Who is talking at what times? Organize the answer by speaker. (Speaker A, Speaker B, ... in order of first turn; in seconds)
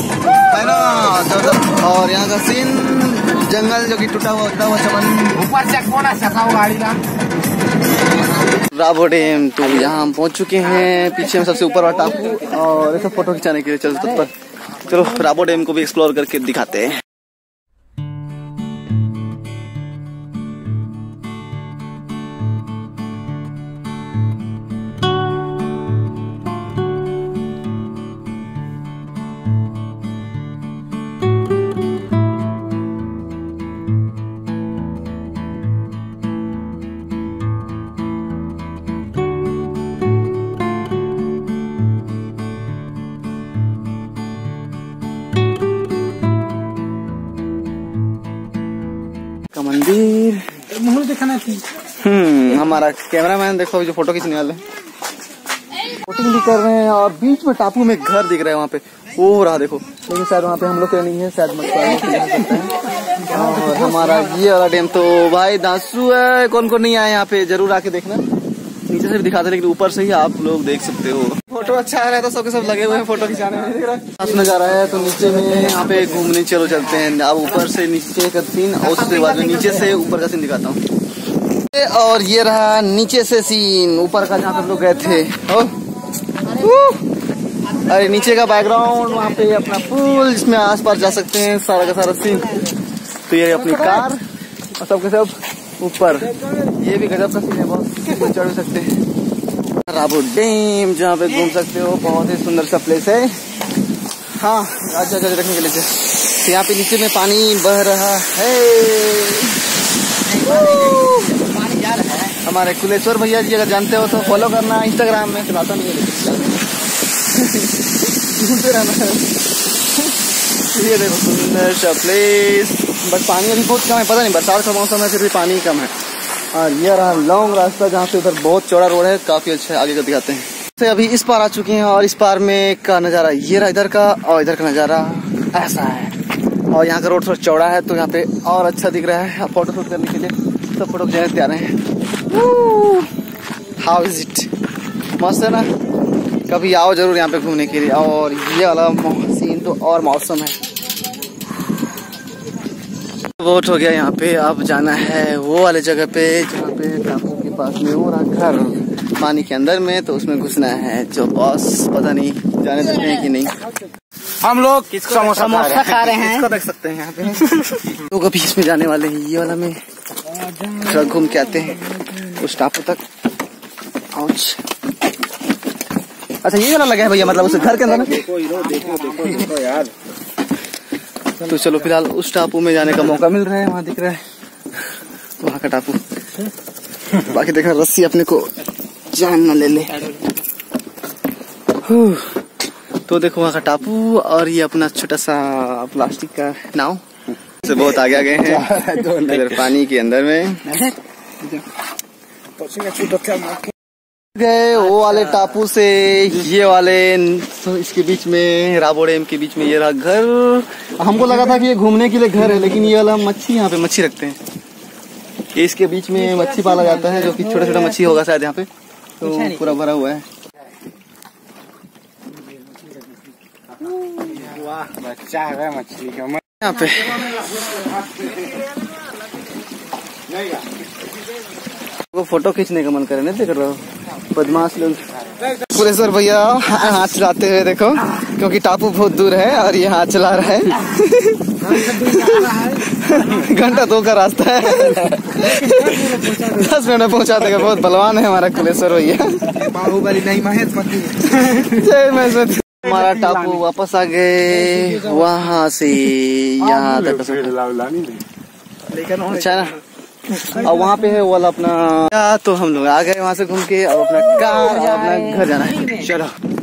Speaker A: 0.3-5.8, 8.4-17.0, 49.5-50.7, 51.9-54.6, 55.9-68.2, 68.9-80.8, 81.7-85.8, 86.4-87.0, 87.7-92.7, 93.3-94.2, 94.7-99.0, 99.8-103.4, 104.4-109.6, 110.2-116.7, 117.3-126.0, 126.5-136.2, 136.7-141.8, 142.3-143.1, 143.8-144.5, 145.2-145.7, 146.5-150.6, 153.4-163.6, 164.4-169.8, 170.6-173.0, 174.1-174.6, 176.4-178.5, 181.3-184.2, 185.4-186.5, 187.1-188.5, 189.1-190.2, 191.7-192.3, 193.1-197.0, 197.6-200.9, 204.3-214.4, 215.5-218.7, 219.2-220.2, 223.8-224.7, 226.6-227.6, 232.1-250.1, 250.9-257.8, 258.9-259.8, 260.4-266.3
Speaker B: 5.9-6.7, 51.0-51.4, 164.5-164.8, 178.4-179.9, 202.7-203.5, 225.0-226.3, 249.9-250.9, 257.7-258.2